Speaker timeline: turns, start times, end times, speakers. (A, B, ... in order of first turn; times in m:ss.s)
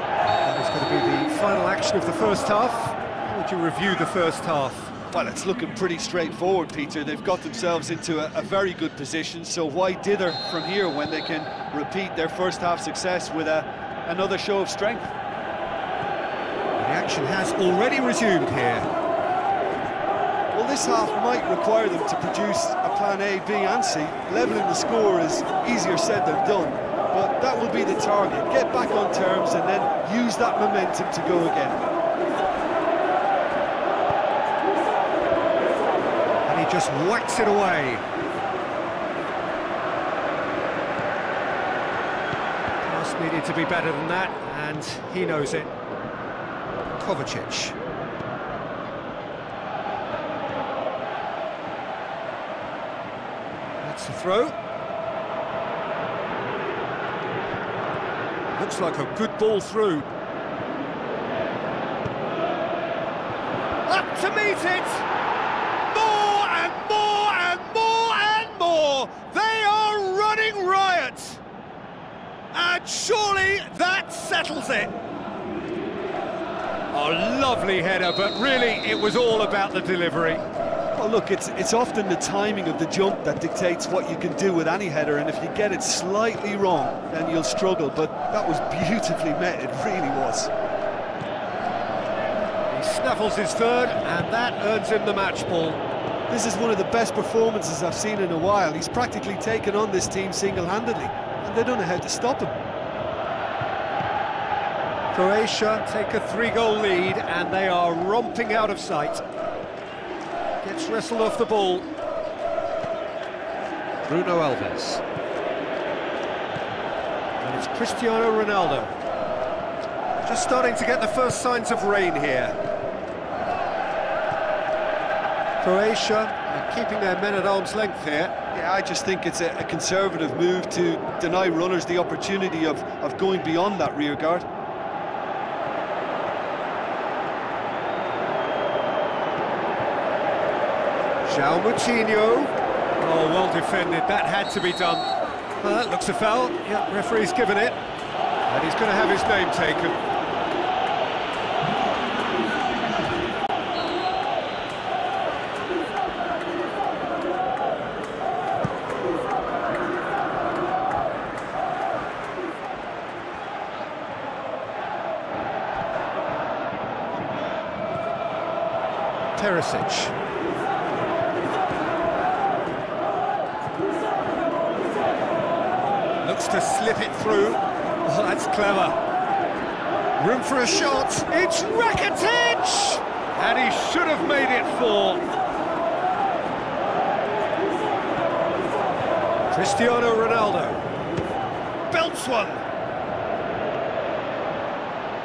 0:00.4-0:04.9 A
0:05.1-0:15.1 B
0:16.8-0:18.9 A
0:20.5-0:31.8 B
0:36.4-0:38.0 A
0:42.8-0:45.7 A
0:47.0-0:47.8 A
0:53.8-0:54.6 A
0:58.5-1:00.1 A
1:03.8-1:05.0 A
1:05.9-1:11.4 A
1:12.5-1:14.9 A
1:16.9-1:20.4 A
1:21.0-1:30.5 B
1:32.7-1:35.8 A
1:36.3-1:42.6 B
1:45.1-1:49.2 A
1:50.6-1:51.8 A
1:54.1-1:55.0 A
1:57.4-1:58.9 A
2:00.2-2:02.6 A
2:05.6-2:08.3 A
2:08.5-2:14.4 B
2:21.2-2:25.0 A
2:25.6-2:27.8 A
2:28.5-2:30.0 A
2:49.4-2:50.1 A
2:56.2-2:59.0 A
3:00.2-3:05.2 A
3:09.5-3:10.8 A
3:11.9-3:12.6 A